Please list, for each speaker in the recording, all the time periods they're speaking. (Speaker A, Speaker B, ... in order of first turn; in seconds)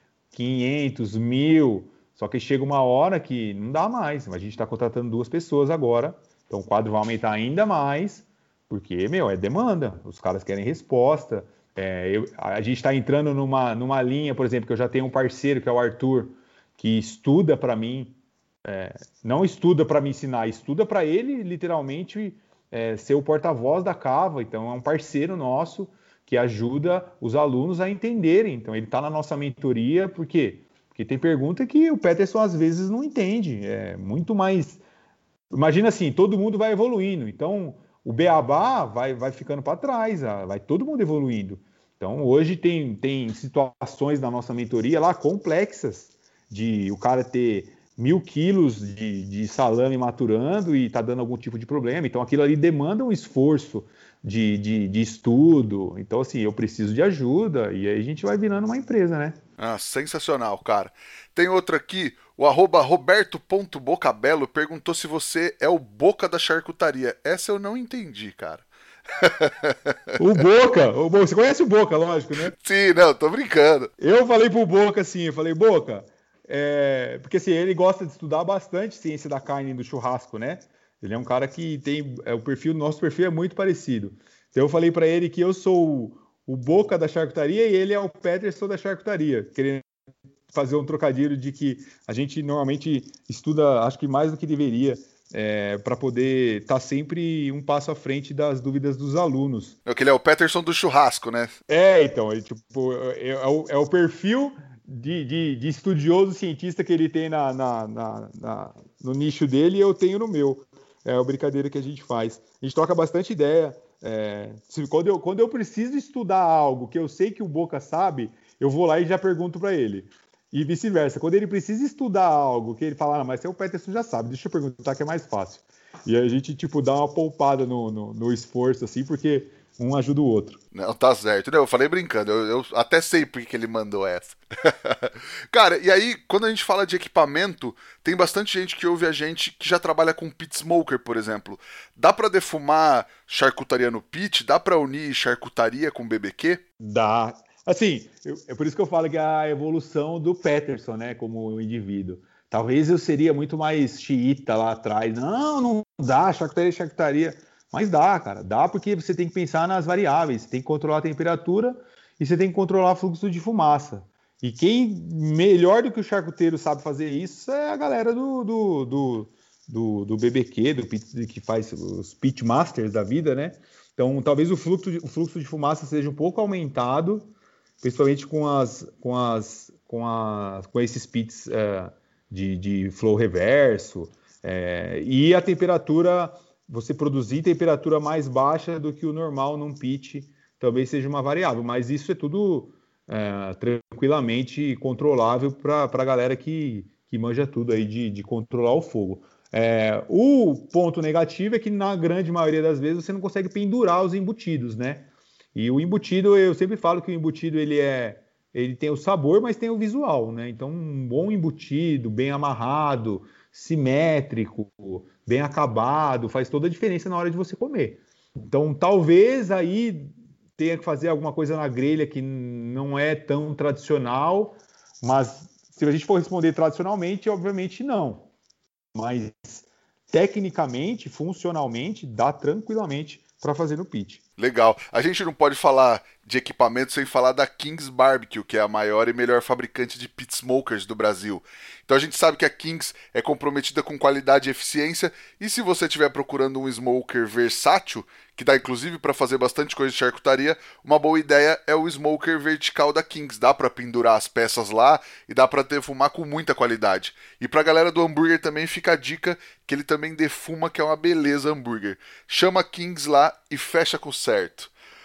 Speaker A: 0.3-34.8, 35.5-59.4, 70.2-72.5, 74.0-89.9, 90.5-99.8, 101.7-130.6, 146.8-177.3, 177.8-228.3, 228.9-234.2
Speaker B: 59.6-69.9, 72.5-73.9, 99.9-101.6, 130.7-146.6, 234.4-264.7